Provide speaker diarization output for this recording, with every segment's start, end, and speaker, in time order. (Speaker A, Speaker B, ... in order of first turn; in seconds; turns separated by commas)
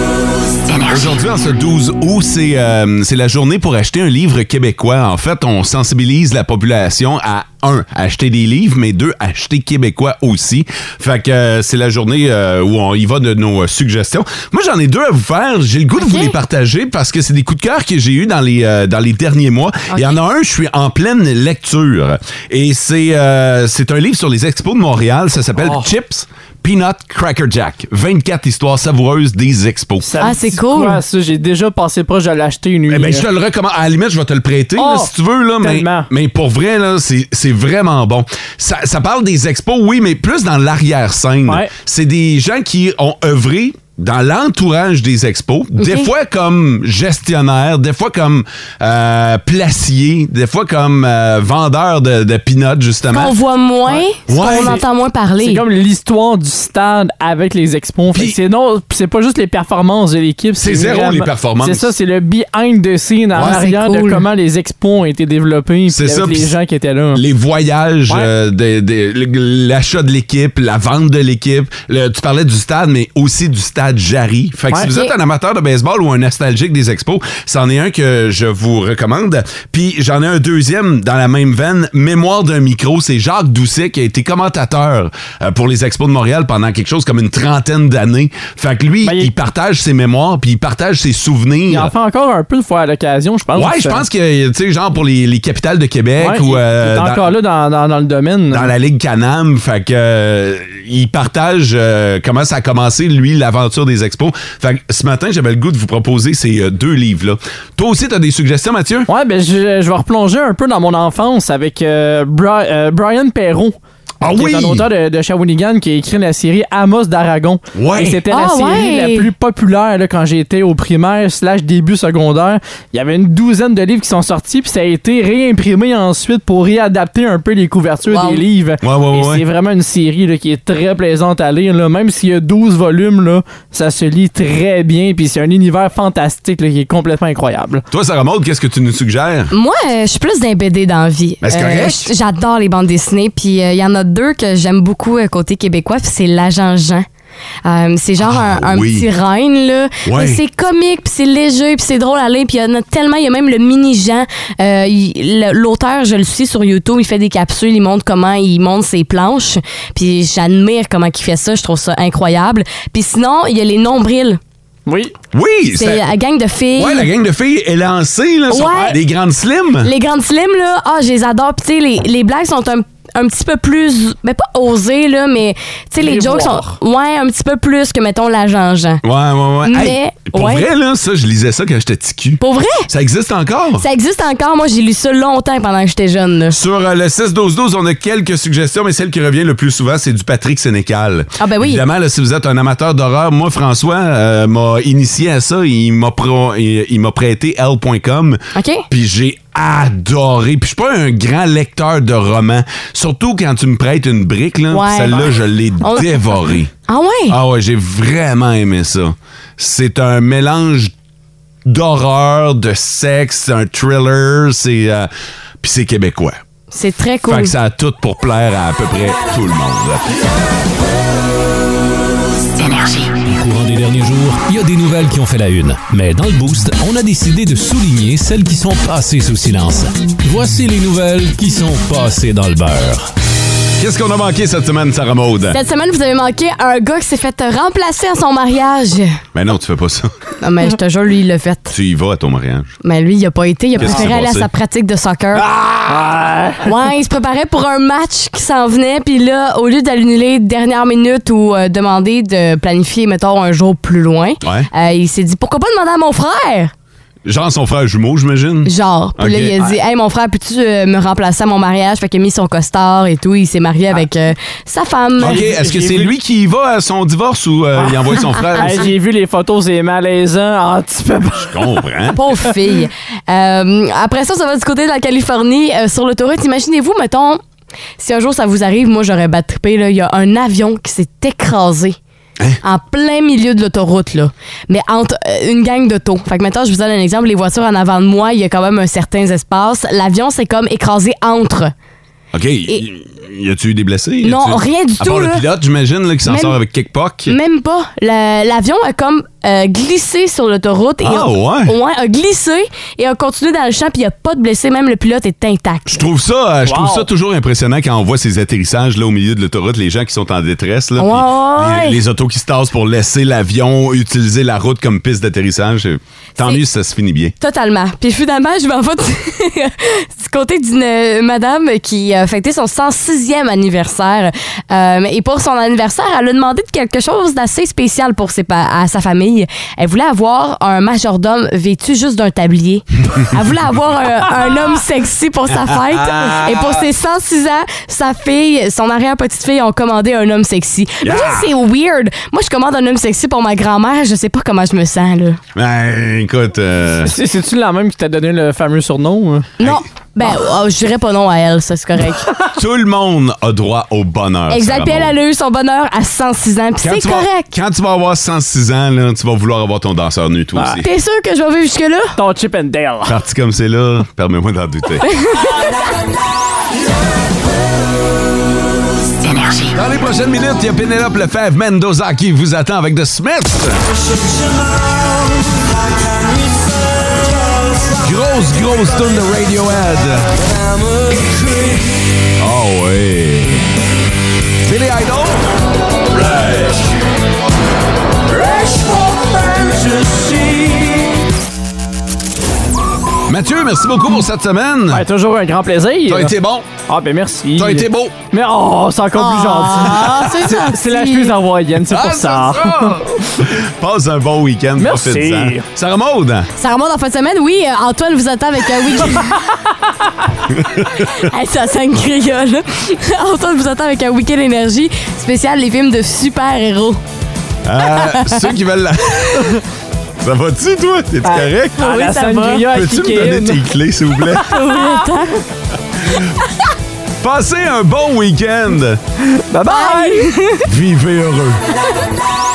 Speaker A: 0.9-30.1, Speaker B: 16.0-16.3, Speaker B: 19.9-20.2, Speaker C: 30.0-33.2, Speaker B: 30.2-31.0, Speaker A: 32.9-53.4, Speaker C: 34.8-36.1, Speaker B: 45.8-46.1, Speaker B: 53.1-55.6, Speaker A: 54.3-54.8, Speaker C: 54.5-54.8, Speaker C: 55.4-67.2, Speaker A: 58.1-58.4, Speaker A: 60.6-61.9, Speaker B: 63.4-64.2, Speaker A: 65.9-66.5, Speaker A: 67.1-91.9, Speaker C: 89.0-89.3, Speaker C: 91.7-94.0, Speaker A: 93.5-97.3, Speaker C: 96.2-98.7, Speaker A: 98.5-109.1, Speaker C: 109.1-113.8, Speaker A: 114.2-114.9, Speaker C: 114.3-137.8, Speaker A: 117.8-118.2, Speaker B: 118.3-119.3, Speaker B: 128.1-128.4, Speaker A: 128.8-129.4, Speaker A: 137.9-139.5, Speaker B: 139.5-147.1, Speaker A: 141.4-142.1, Speaker B: 147.7-164.4, Speaker A: 148.2-149.1, Speaker A: 150.0-150.4, Speaker C: 164.9-165.1, Speaker A: 165.3-166.1, Speaker B: 165.7-167.1, Speaker A: 166.8-169.9, Speaker B: 168.5-169.0, Speaker B: 169.8-179.0, Speaker C: 176.0-176.8, Speaker A: 179.0-183.8, Speaker B: 179.7-180.7, Speaker B: 182.4-182.9, Speaker B: 183.8-186.6, Speaker A: 186.5-206.7, Speaker B: 191.4-191.8, Speaker B: 198.6-198.9, Speaker B: 204.7-206.2, Speaker B: 206.9-207.4, Speaker A: 207.3-210.9, Speaker A: 211.7-215.1, Speaker A: 215.6-216.4, Speaker B: 216.7-217.5, Speaker A: 217.2-220.1, Speaker D: 223.2-233.1, Speaker A: 233.8-235.6, Speaker B: 235.5-239.2, Speaker A: 239.3-240.1, Speaker B: 240.4-241.7, Speaker A: 241.7-242.8, Speaker B: 242.8-245.4, Speaker A: 243.8-244.5, Speaker A: 245.3-246.2, Speaker C: 245.9-246.7, Speaker B: 246.6-256.7, Speaker A: 254.4-254.7, Speaker A: 257.2-259.6, Speaker B: 258.7-265.4, Speaker A: 265.2-268.9, Speaker C: 265.2-266.1, Speaker C: 267.8-271.8, Speaker A: 271.4-272.2, Speaker B: 272.2-277.4, Speaker B: 278.0-282.0, Speaker B: 282.6-291.7, Speaker A: 292.3-297.3, Speaker B: 294.2-295.4, Speaker B: 296.3-296.6, Speaker B: 297.3-306.0, Speaker A: 301.0-301.7, Speaker A: 305.9-317.4, Speaker C: 306.7-307.1, Speaker B: 311.0-312.0, Speaker B: 317.4-345.4, Speaker A: 335.5-336.9, Speaker A: 341.0-341.5, Speaker A: 345.6-347.1, Speaker C: 347.0-349.5, Speaker B: 349.6-352.3, Speaker A: 352.5-355.1, Speaker B: 354.5-357.5, Speaker A: 356.8-360.9, Speaker C: 360.6-360.8, Speaker B: 360.8-362.2, Speaker C: 362.2-363.2, Speaker A: 363.1-365.1, Speaker B: 365.1-365.6, Speaker A: 369.7-373.9, Speaker A: 377.9-380.4, Speaker A: 382.4-383.7, Speaker A: 384.6-385.5, Speaker A: 386.1-386.9, Speaker A: 389.5-390.9, Speaker A: 393.3-395.1, Speaker C: 394.9-396.3, Speaker A: 396.1-396.7, Speaker C: 396.9-403.1, Speaker A: 397.5-398.2, Speaker B: 399.1-401.3, Speaker A: 401.9-406.5, Speaker C: 404.8-405.7, Speaker B: 406.6-409.4, Speaker A: 410.5-411.3, Speaker B: 411.0-417.0, Speaker A: 417.6-419.6, Speaker B: 417.8-418.4, Speaker A: 420.2-421.9, Speaker C: 421.2-423.6, Speaker B: 421.8-422.6, Speaker A: 422.6-424.5, Speaker C: 424.4-425.1, Speaker B: 424.4-425.4, Speaker A: 427.2-429.0, Speaker C: 429.5-430.3, Speaker B: 429.7-430.7, Speaker A: 430.6-431.6